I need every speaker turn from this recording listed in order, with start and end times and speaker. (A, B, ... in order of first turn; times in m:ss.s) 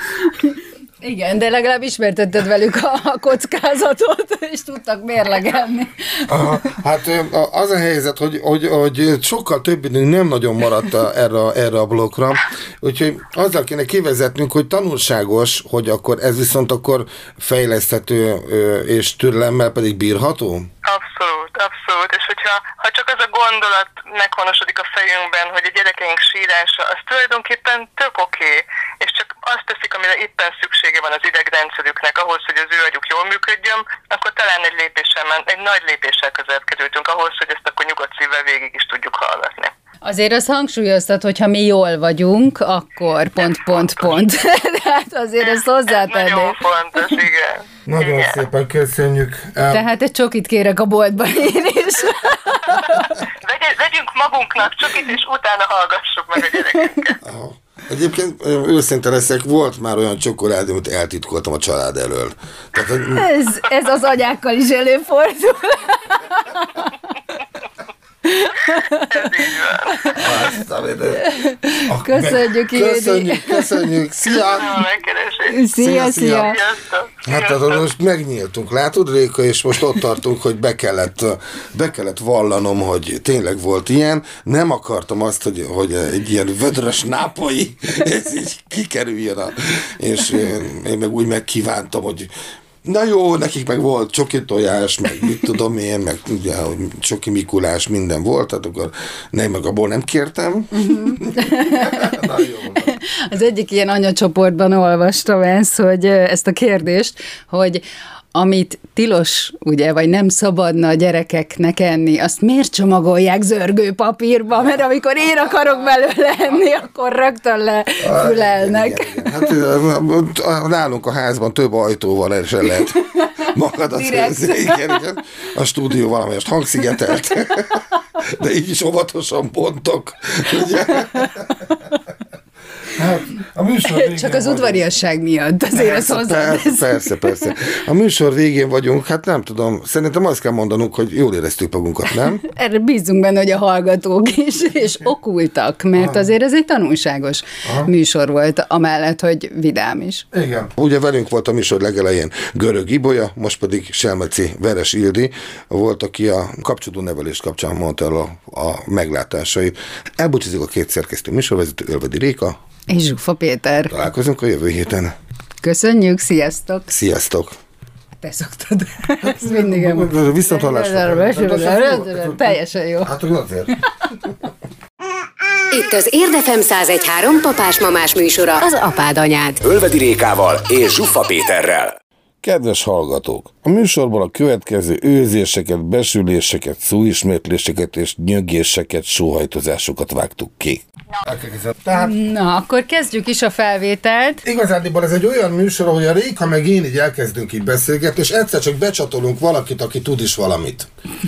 0:01.0-0:06.3 A
0:06.3-0:20.7 B
0:20.8-0:39.7 C
0:40.0-0:46.6 A
0:45.4-0:48.4 C
0:47.9-0:49.9 B
0:49.7-0:53.1 A
0:53.0-0:57.2 C
0:57.2-1:03.3 B
1:03.1-1:07.0 A
1:08.2-1:09.3 A
1:09.1-1:10.2 C
1:09.9-1:10.5 A
1:10.1-1:11.2 B
1:11.2-1:13.8 A
1:11.8-1:14.8 B
1:14.2-1:15.6 C
1:15.5-1:16.6 A
1:15.8-1:16.6 B
1:16.3-1:17.8 C
1:17.2-1:32.3 B
1:32.8-1:42.9 B
1:40.8-1:42.2 A
1:43.0-1:47.8 A
1:48.4-1:59.5 A
1:58.0-2:11.6 B
2:03.1-2:03.4 A
2:04.0-2:05.0 A
2:12.9-2:14.8 B
2:13.9-2:17.5 A
2:15.7-2:22.4 B
2:22.4-2:30.2 A
2:26.0-2:26.2 B
2:27.6-2:27.9 B
2:30.3-2:42.6 B
2:42.9-2:44.0 A
2:43.9-2:45.1 B
2:45.6-2:46.9 A
2:46.9-2:47.6 B
2:48.2-2:53.1 A
2:49.2-2:54.3 B
2:55.7-2:59.6 D
2:59.6-3:02.0 E
3:02.4-3:12.1 B
3:11.9-3:14.4 A
3:14.4-3:20.9 B